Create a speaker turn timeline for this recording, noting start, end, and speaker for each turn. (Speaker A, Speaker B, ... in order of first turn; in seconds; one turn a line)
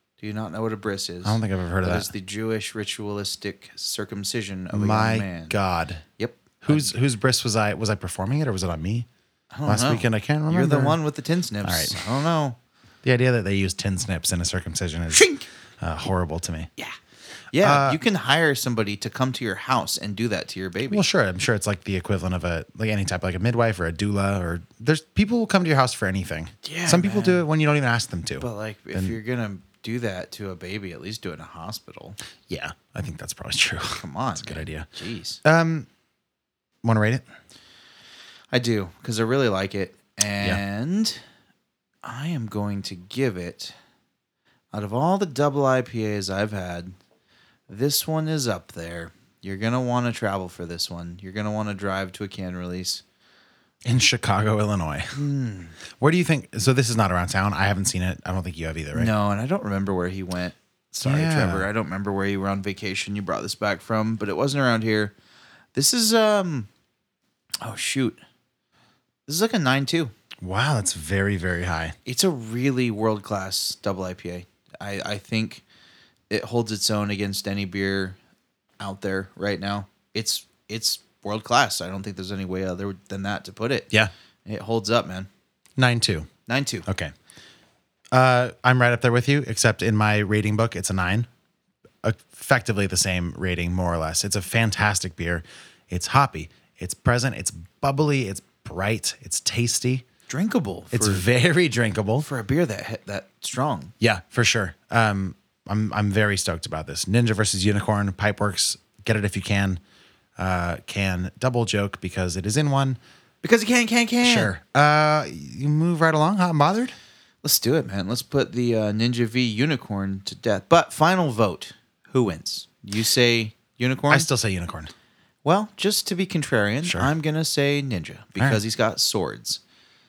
Speaker A: 0.2-5.5
Speaker B: 1.2-2.1
Speaker B: 4.7-6.0
Speaker A: 6.2-6.9
Speaker B: 6.6-9.1
Speaker A: 9.5-12.6
Speaker B: 9.7-11.0
Speaker B: 11.6-12.1
Speaker B: 13.0-15.3
Speaker A: 15.1-15.4
Speaker B: 15.8-16.7
Speaker A: 17.5-21.0
Speaker B: 17.6-18.0
Speaker B: 20.9-29.2
Speaker A: 26.6-27.5
Speaker A: 28.4-32.2
Speaker B: 32.5-34.9
Speaker A: 34.0-35.4
Speaker B: 35.4-35.9
Speaker B: 36.8-37.2
Speaker A: 38.5-41.2
Speaker A: 42.0-43.7
Speaker A: 44.7-46.9
Speaker A: 47.7-53.0
Speaker B: 53.8-55.2
Speaker A: 55.1-55.8
Speaker B: 56.0-59.1
Speaker A: 58.9-65.1
Speaker B: 61.0-61.7
Speaker A: 65.7-66.7
Speaker A: 67.6-68.2
Speaker A: 69.3-70.1
Speaker B: 70.4-72.0
Speaker A: 72.0-75.6
Speaker A: 76.3-78.2
Speaker A: 78.8-83.9
Speaker A: 84.5-85.3
Speaker B: 85.8-86.3
Speaker A: 86.5-86.8
Speaker B: 86.8-87.1
Speaker B: 88.1-91.3
Speaker B: 92.0-100.0
Speaker A: 100.3-101.2
Speaker B: 100.9-102.3
Speaker A: 102.2-103.9
Speaker B: 104.0-109.8
Speaker B: 110.4-113.0
Speaker A: 113.4-114.5
Speaker B: 114.2-116.9
Speaker A: 117.4-124.3
Speaker B: 124.1-124.9
Speaker A: 125.4-129.6
Speaker B: 126.8-127.1